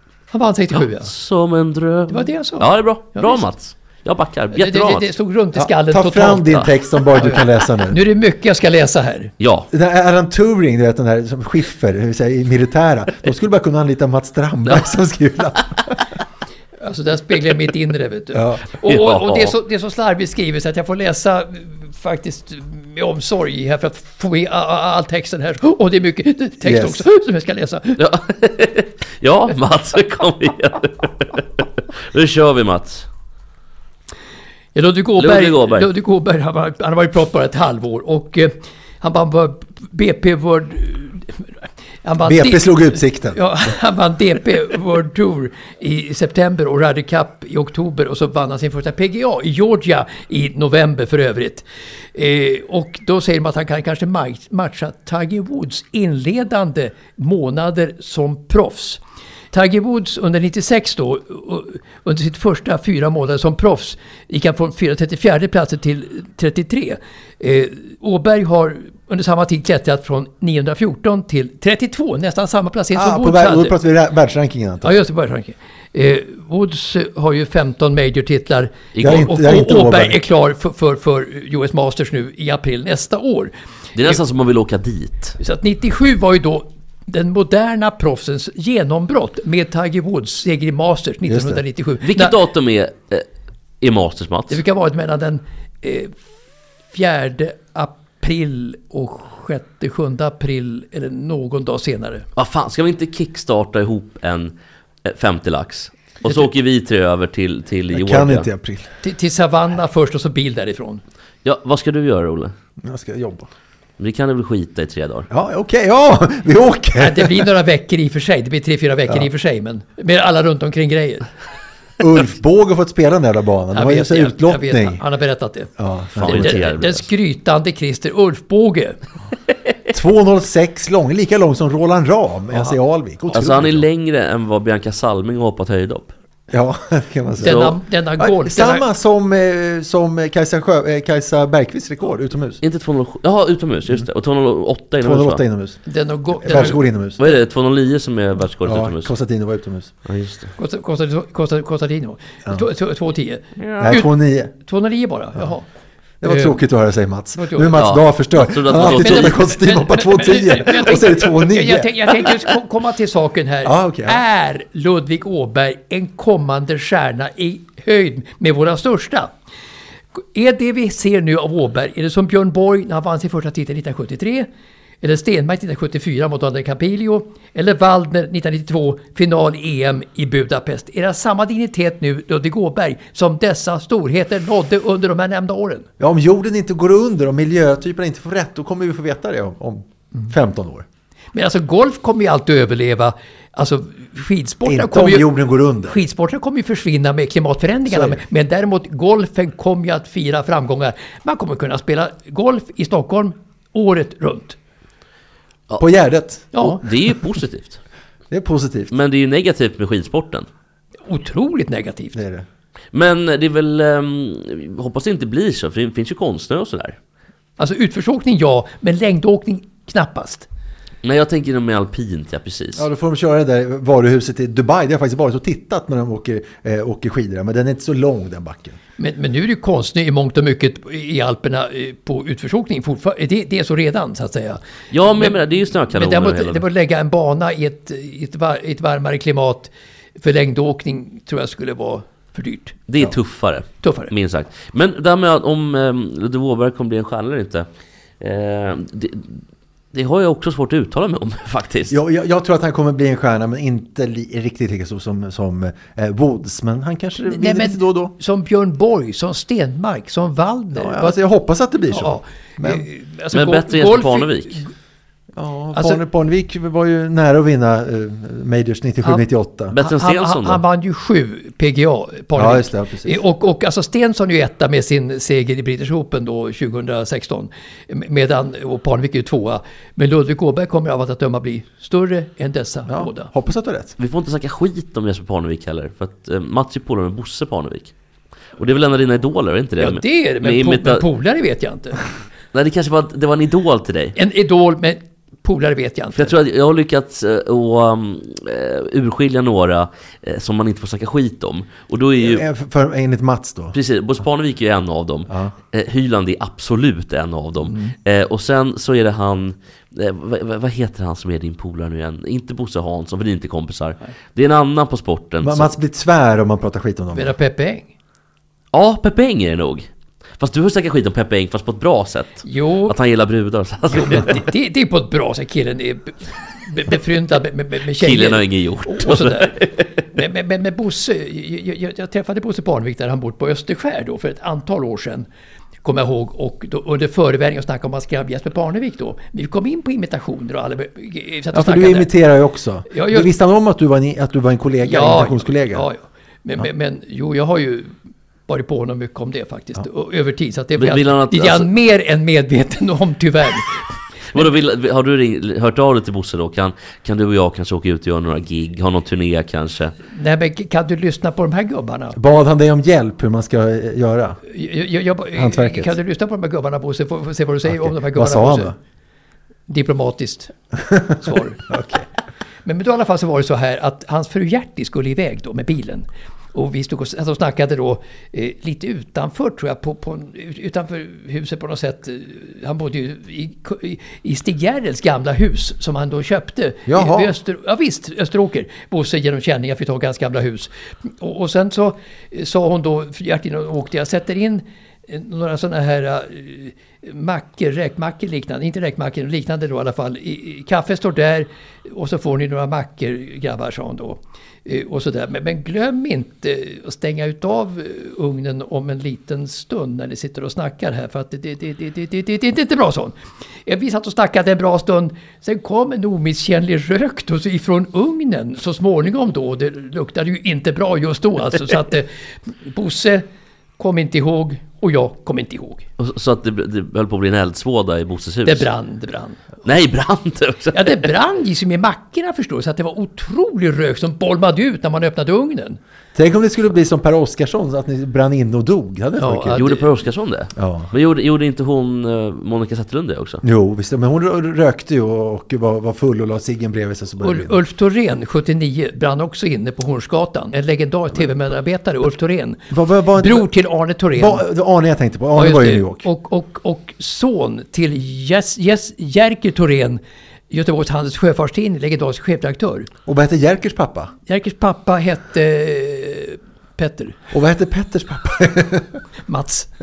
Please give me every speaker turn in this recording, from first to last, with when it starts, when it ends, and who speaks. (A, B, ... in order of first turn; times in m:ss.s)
0:00.3-0:01.1 A
0:00.7-0:05.1 B
0:02.1-0:03.5 A
0:04.5-0:09.3 A
0:05.6-0:08.0 C
0:09.4-0:09.7 B
0:09.7-0:16.0 C
0:16.8-0:28.0 A
0:18.3-0:18.6 C
0:18.8-0:19.5 B
0:26.6-0:27.0 C
0:28.0-0:33.1 B
0:34.7-0:41.4 A
0:35.2-0:35.9 B
0:42.0-0:59.0 A
0:42.2-0:43.4 C
0:59.5-1:13.8 A
1:12.9-1:15.0 C
1:14.8-1:23.5 A
1:19.0-1:20.2 C
1:24.0-1:25.4 B
1:25.4-1:32.3 A
1:31.2-1:31.6 C
1:32.0-1:33.2 B
1:33.8-1:34.6 B
1:34.5-1:36.1 A
1:36.9-1:42.2 A
1:42.4-1:48.5 B
1:47.9-1:48.9 C
1:49.0-1:51.0 A
1:51.4-1:52.5 B
1:52.8-1:53.5 C
1:54.0-1:55.3 B
1:55.3-1:57.5 C
1:57.0-2:01.2 A
2:02.0-2:05.0 C
2:03.7-2:05.7 A
2:05.8-2:06.8 C
2:06.2-2:07.0 B
2:06.2-2:09.0 A
2:09.9-2:13.8 C
2:12.5-2:13.5 A
2:13.3-2:16.1 B
2:16.5-2:22.6 C
2:17.4-2:18.8 A
2:17.4-2:17.8 B
2:22.6-2:25.4 B
2:25.0-2:25.8 C
2:25.8-2:27.3 A
2:26.4-2:27.2 C
2:26.5-2:29.1 B
2:28.6-2:29.9 C
2:30.0-2:30.5 B
2:30.6-2:35.7 A
2:33.6-2:34.0 B
2:33.8-2:34.5 C
2:36.2-2:42.4 C
2:36.2-2:36.6 A
2:37.4-2:37.8 A
2:37.8-2:39.4 B
2:38.8-2:49.3 A
2:43.6-2:44.2 C
2:50.2-2:54.5 A
2:55.0-3:05.9 A
3:06.0-3:10.8 C
3:11.3-3:15.3 A
3:14.6-3:16.0 C
3:15.8-3:24.6 A
3:17.9-3:18.2 C
3:25.8-3:26.6 C
3:26.5-3:26.8 A
3:26.6-3:27.8 B
3:28.3-3:28.9 C
3:28.9-3:30.5 B
3:31.1-3:32.2 A
3:32.1-3:32.4 C
3:32.9-3:37.0 B
3:37.6-3:40.5 A
3:41.0-3:42.8 B
3:42.8-3:48.8 C
3:49.0-4:02.8 A
3:54.9-3:56.6 B
4:02.9-4:07.7 B
4:03.8-4:04.1 A
4:08.2-4:09.4 B
4:09.9-4:12.0 B
4:11.9-4:18.1 C
4:17.2-4:21.2 A
4:20.7-4:22.8 C
4:21.9-4:24.7 A
4:23.3-4:24.6 B
4:25.3-4:29.7 C
4:25.7-4:26.0 A
4:29.7-4:30.6 B
4:29.8-4:43.3 A
4:32.3-4:33.2 C
4:42.9-4:44.0 C
4:44.0-4:47.9 B
4:48.6-4:51.0 B
4:49.8-4:52.0 A
4:52.5-4:54.2 B
4:54.2-4:56.3 A
4:56.1-5:02.4 B
5:02.2-5:03.8 C
5:03.7-5:15.7 B
5:05.3-5:05.5 C
5:15.4-5:17.4 C
5:17.1-5:17.9 A
5:18.7-5:19.9 B
5:20.4-5:24.4 B
5:22.4-5:22.9 A
5:23.9-5:29.6 A
5:28.0-5:30.0 B
5:30.1-5:35.3 A
5:35.8-5:42.1 A
5:41.5-5:45.8 C
5:42.9-5:43.3 A
5:44.8-5:47.9 A
5:48.5-5:53.8 A
5:50.8-5:51.7 B
5:54.3-5:59.9 B
6:00.1-6:02.2 A
6:02.1-6:04.4 C
6:04.5-6:08.7 A
6:05.3-6:06.0 C
6:07.6-6:08.8 C
6:09.7-6:10.5 A
6:10.8-6:12.1 C
6:11.2-6:11.6 A
6:12.6-7:02.1 A
6:26.8-6:27.3 C
7:02.6-7:03.2 A
7:03.8-7:05.8 A
7:06.0-7:08.7 B
7:08.4-7:09.4 A
7:09.6-7:11.1 B
7:10.7-7:15.8 A
7:16.1-7:19.6 C
7:19.2-7:19.8 A
7:19.5-7:23.4 B
7:20.6-7:20.9 C
7:23.4-7:27.6 C
7:27.2-7:32.6 A
7:32.7-7:33.5 C
7:33.1-7:34.4 A
7:34.2-7:36.1 C
7:35.4-7:42.9 A
7:43.0-7:44.1 C
7:44.3-7:47.2 A
7:47.3-7:49.0 C
7:49.3-7:49.7 A